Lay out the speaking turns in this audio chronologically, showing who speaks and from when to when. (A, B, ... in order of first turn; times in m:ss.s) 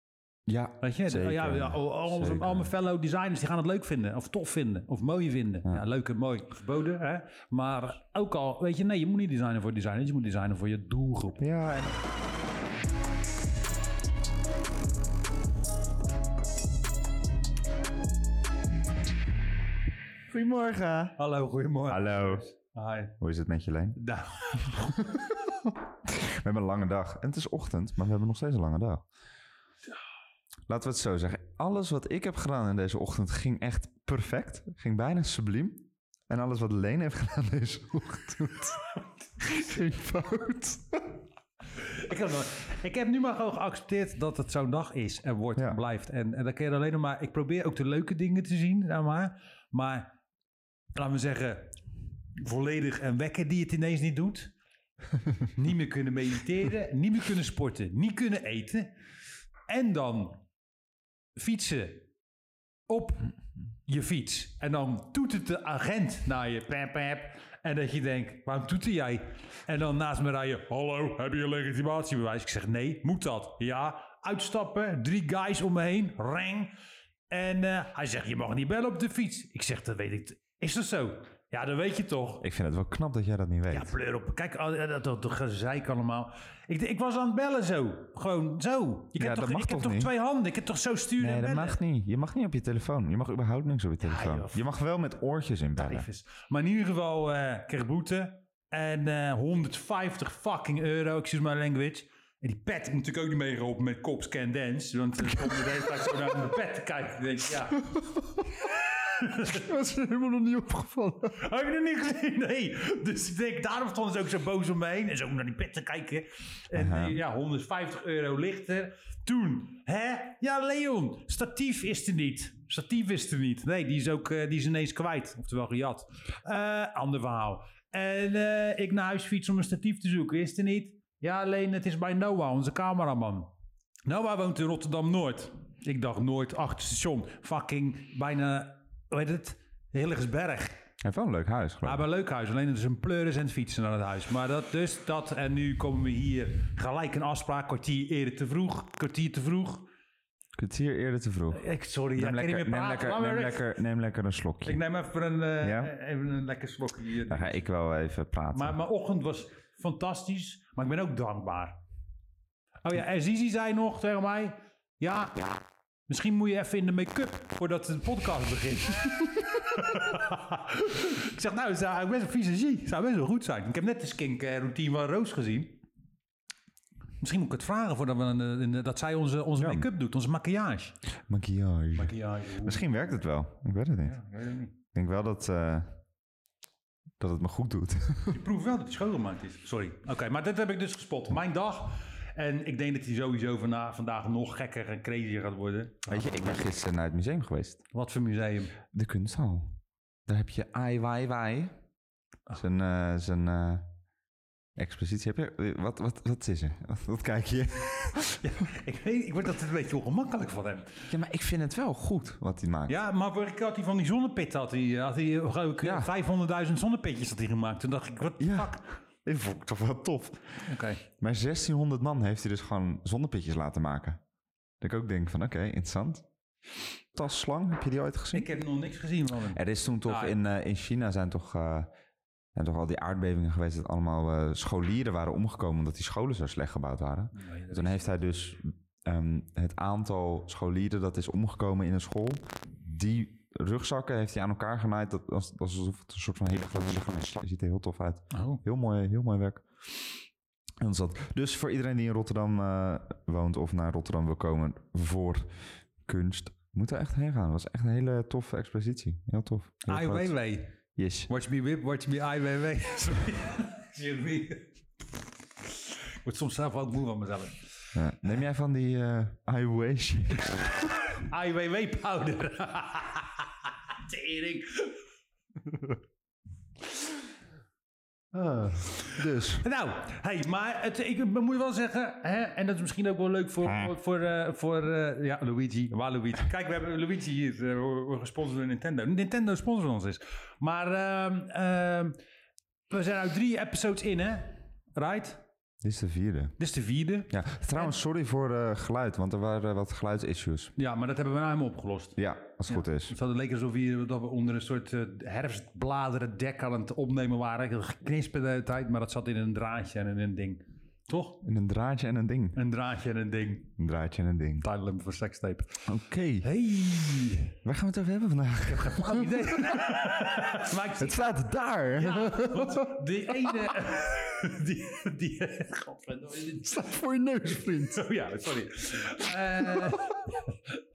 0:00.5-0:02.7 A
0:00.8-0:11.4 B
0:11.4-0:12.0 A
0:20.3-0:21.2 A
0:21.2-0:23.2 B
0:21.9-0:22.5 A
0:23.2-0:24.0 A
0:24.0-0:25.0 B
0:24.7-0:29.0 A
0:30.7-0:41.2 A
0:41.8-0:50.1 B
0:51.0-0:51.8 B
0:52.4-0:54.5 B
0:55.5-0:58.9 B
0:59.7-1:00.4 B
1:01.4-1:02.0 B
1:02.9-1:03.3 B
1:03.9-1:16.7 B
1:17.3-1:22.4 B
1:22.4-1:23.9 A
1:23.7-1:31.8 B
1:29.2-1:30.1 A
1:31.2-1:36.1 A
1:34.0-1:34.6 B
1:35.8-1:48.0 B
1:47.9-1:48.5 A
1:48.6-1:49.6 B
1:49.5-1:51.4 A
1:51.3-2:13.5 B
1:56.7-1:57.2 A
2:14.1-2:20.8 B
2:21.0-2:22.0 A
2:21.8-2:29.9 B
2:30.6-2:31.6 A
2:31.5-2:33.7 B
2:32.2-2:34.8 A
2:34.6-2:37.6 B
2:35.6-2:35.9 A
2:37.3-2:38.8 A
2:38.5-2:41.8 B
2:42.8-2:45.6 B
2:46.1-2:55.8 B
2:57.2-3:01.0 B
2:59.6-2:59.9 A
3:01.3-3:04.2 A
3:02.0-3:02.9 B
3:04.0-3:04.7 B
3:04.9-3:05.9 A
3:07.2-3:08.4 A
3:08.3-3:16.6 B
3:16.1-3:17.8 A
3:17.9-3:18.8 B
3:18.9-3:21.8 A
3:22.5-3:23.8 A
3:24.8-3:28.5 A
3:28.4-3:31.1 B
3:31.1-3:33.0 A
3:32.9-3:38.8 B
3:35.8-3:36.1 A
3:38.4-3:40.6 A
3:40.6-3:41.0 B
3:41.2-3:44.2 A
3:44.8-3:46.2 A
3:47.1-3:48.5 A
3:48.3-3:50.4 B
3:49.5-3:51.9 A
3:52.6-4:09.7 A
3:57.4-3:58.1 B
4:08.3-4:08.6 B
4:10.8-4:15.5 A
4:16.0-4:20.4 A
4:19.9-4:20.7 B
4:21.0-4:21.3 A
4:21.3-4:24.7 B
4:25.7-4:27.7 B
4:28.0-4:30.9 A
4:31.2-4:35.0 B
4:38.3-4:39.6 A
4:39.6-4:52.2 B
4:43.6-4:43.9 A
4:52.9-4:55.4 B
4:55.8-4:56.5 A
4:56.6-4:58.0 B
4:57.3-5:00.7 A
5:00.8-5:11.4 B
5:02.2-5:03.1 A
5:11.4-5:12.6 A
5:12.6-5:13.7 B
5:13.8-5:14.7 A
5:14.6-5:15.9 B
5:15.9-5:16.5 A
5:16.4-5:17.6 B
5:17.6-5:20.4 A
5:18.6-5:21.4 B
5:21.0-5:23.6 A
5:22.0-5:26.8 B
5:26.6-5:28.1 A
5:27.9-5:30.8 B
5:29.5-5:30.3 A